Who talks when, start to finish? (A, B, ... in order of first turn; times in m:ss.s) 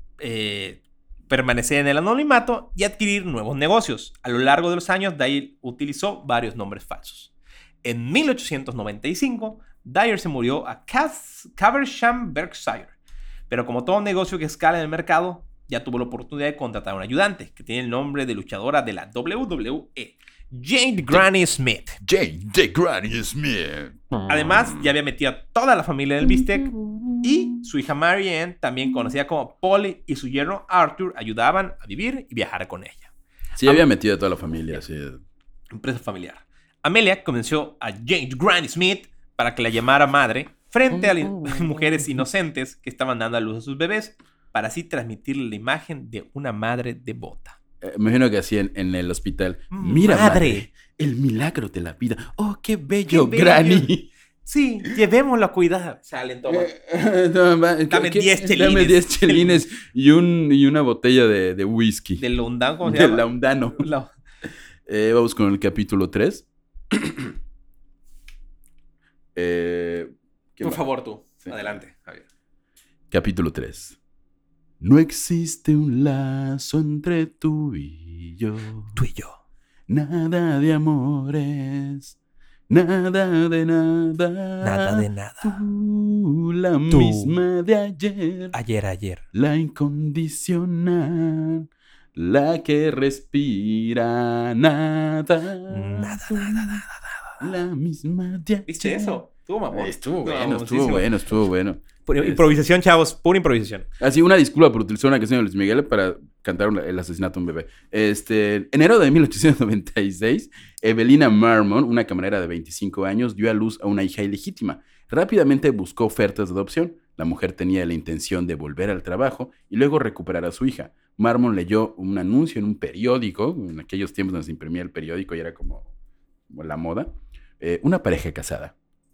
0:00.2-0:07.3 A
0:07.8-0:12.9 A
0:13.5-0:22.0 A
0:22.0-0:24.9 B
0:24.3-0:33.1 A
0:26.3-0:27.3 B
0:33.6-0:35.2 B
0:35.7-0:47.6 A
0:40.9-0:42.2 B
0:47.8-0:54.1 B
0:49.7-0:50.6 A
0:53.1-0:53.9 A
0:54.4-0:56.7 A
0:56.5-1:02.2 B
0:57.9-0:59.6 A
1:02.2-1:03.2 A
1:02.8-1:03.9 B
1:03.8-1:04.1 A
1:04.8-1:07.3 B
1:09.3-1:10.8 B
1:10.6-1:12.2 A
1:13.1-1:14.0 B
1:14.8-1:19.0 B
1:19.0-1:19.4 A
1:19.9-1:22.2 B
1:22.7-1:28.5 B
1:24.6-1:25.6 A
1:26.9-1:27.4 A
1:28.5-1:29.3 A
1:29.3-1:36.8 B
1:35.7-1:37.4 A
1:37.4-1:42.5 B
1:38.7-1:41.1 A
1:42.0-1:43.9 A
1:44.0-2:05.9 B
2:06.5-2:08.7 B